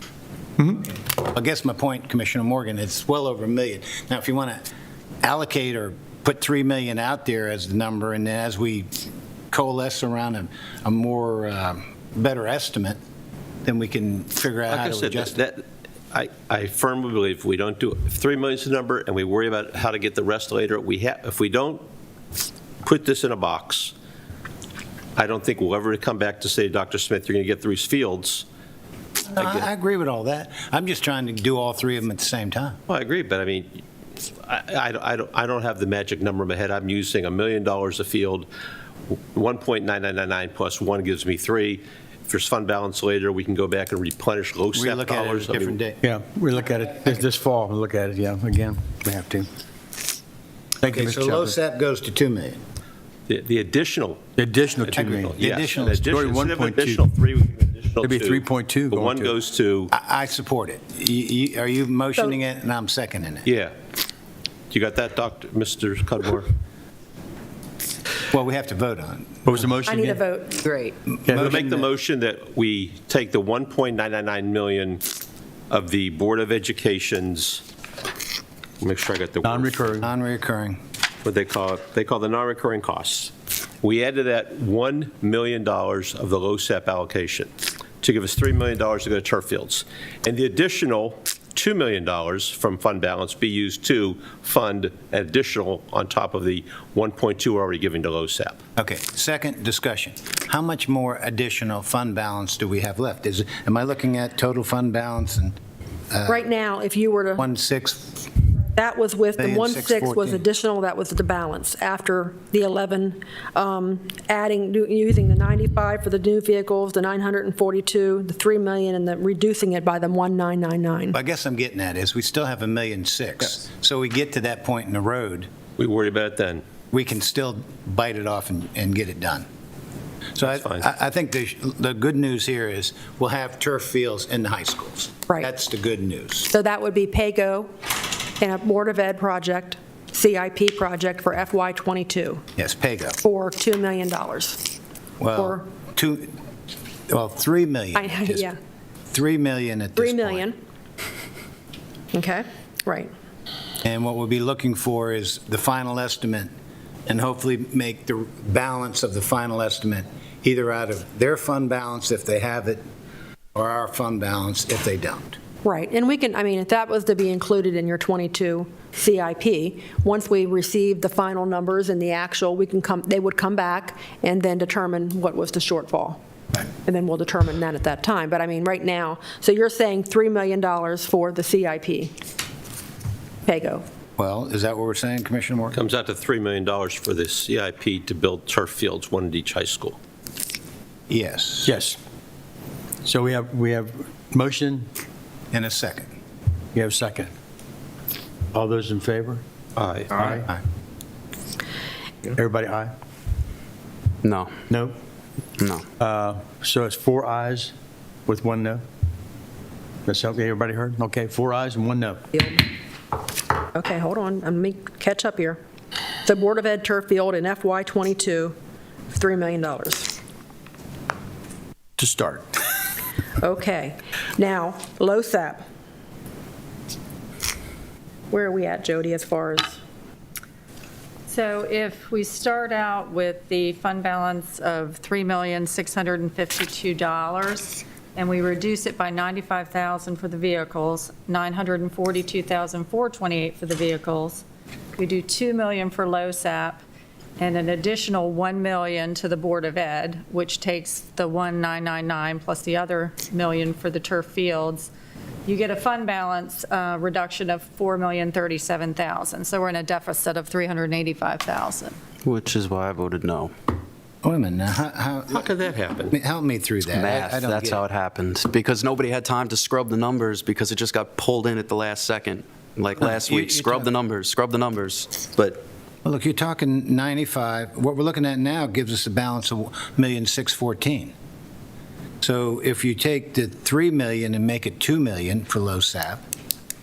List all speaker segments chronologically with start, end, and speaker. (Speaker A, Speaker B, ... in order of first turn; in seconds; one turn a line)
Speaker A: 1.1-4.7
Speaker A: 5.2-8.9
Speaker A: 9.5-13.0
Speaker A: 13.7-15.4
Speaker B: 14.7-21.8
Speaker B: 22.8-23.9
Speaker B: 25.2-28.4
Speaker A: 29.3-32.8
Speaker B: 29.4-29.7
Speaker B: 32.9-33.8
Speaker B: 34.4-38.5
Speaker B: 39.3-45.8
Speaker A: 44.7-46.0
Speaker C: 46.0-48.9
Speaker A: 49.0-49.5
Speaker C: 50.8-51.6
Speaker A: 50.9-52.6
Speaker B: 53.3-54.2
Speaker C: 54.4-55.4
Speaker B: 54.9-59.9
Speaker A: 54.9-56.1
Speaker C: 56.0-57.1
Speaker C: 58.0-59.3
Speaker A: 59.9-63.5
Speaker B: 63.5-63.7
Speaker B: 64.7-66.5
Speaker A: 68.3-69.5
Speaker C: 69.5-70.3
Speaker D: 69.9-71.0
Speaker C: 71.3-71.7
Speaker B: 71.3-75.0
Speaker B: 75.7-77.6
Speaker B: 78.8-79.9
Speaker C: 79.4-80.1
Speaker A: 80.0-80.8
Speaker B: 81.2-98.6
Speaker A: 98.8-105.6
Speaker A: 106.1-106.5
Speaker D: 106.3-107.5
Speaker A: 107.4-108.3
Speaker D: 108.7-121.2
Speaker A: 109.4-110.4
Speaker A: 121.1-125.5
Speaker B: 125.8-126.6
Speaker A: 126.9-129.5
Speaker A: 130.4-136.5
Speaker B: 130.5-130.8
Speaker D: 136.5-137.7
Speaker D: 138.4-142.4
Speaker A: 142.6-143.2
Speaker D: 143.2-144.7
Speaker A: 145.2-146.4
Speaker D: 145.3-145.6
Speaker A: 147.1-148.5
Speaker D: 148.0-148.6
Speaker A: 149.1-150.5
Speaker D: 150.0-150.5
Speaker D: 152.1-153.1
Speaker A: 153.8-156.5
Speaker A: 157.1-162.8
Speaker A: 163.6-165.4
Speaker D: 165.6-176.2
Speaker D: 176.8-182.2
Speaker D: 183.5-183.8
Speaker A: 184.2-185.8
Speaker B: 185.7-190.0
Speaker A: 191.1-191.7
Speaker C: 191.7-192.0
Speaker C: 193.0-194.9
Speaker A: 195.5-196.1
Speaker C: 196.8-197.3
Speaker C: 198.5-199.4
Speaker B: 199.8-200.4
Speaker C: 200.2-200.5
Speaker C: 202.3-202.9
Speaker E: 204.2-204.6
Speaker C: 204.7-205.0
Speaker E: 205.6-205.9
Speaker C: 206.0-207.7
Speaker C: 208.3-208.8
Speaker C: 210.1-212.3
Speaker D: 212.3-212.7
Speaker D: 213.7-215.6
Speaker D: 216.2-218.6
Speaker D: 219.1-220.1
Speaker C: 222.0-222.5
Speaker D: 223.4-225.7
Speaker D: 228.3-229.8
Speaker F: 231.3-244.4
Speaker F: 245.0-246.8
Speaker F: 247.4-254.9
Speaker F: 255.5-262.0
Speaker E: 262.2-263.5
Speaker A: 264.2-265.5
Speaker B: 265.3-266.1
Speaker A: 266.1-267.8
Speaker E: 266.9-275.6
Speaker A: 276.1-281.1
Speaker A: 282.2-286.2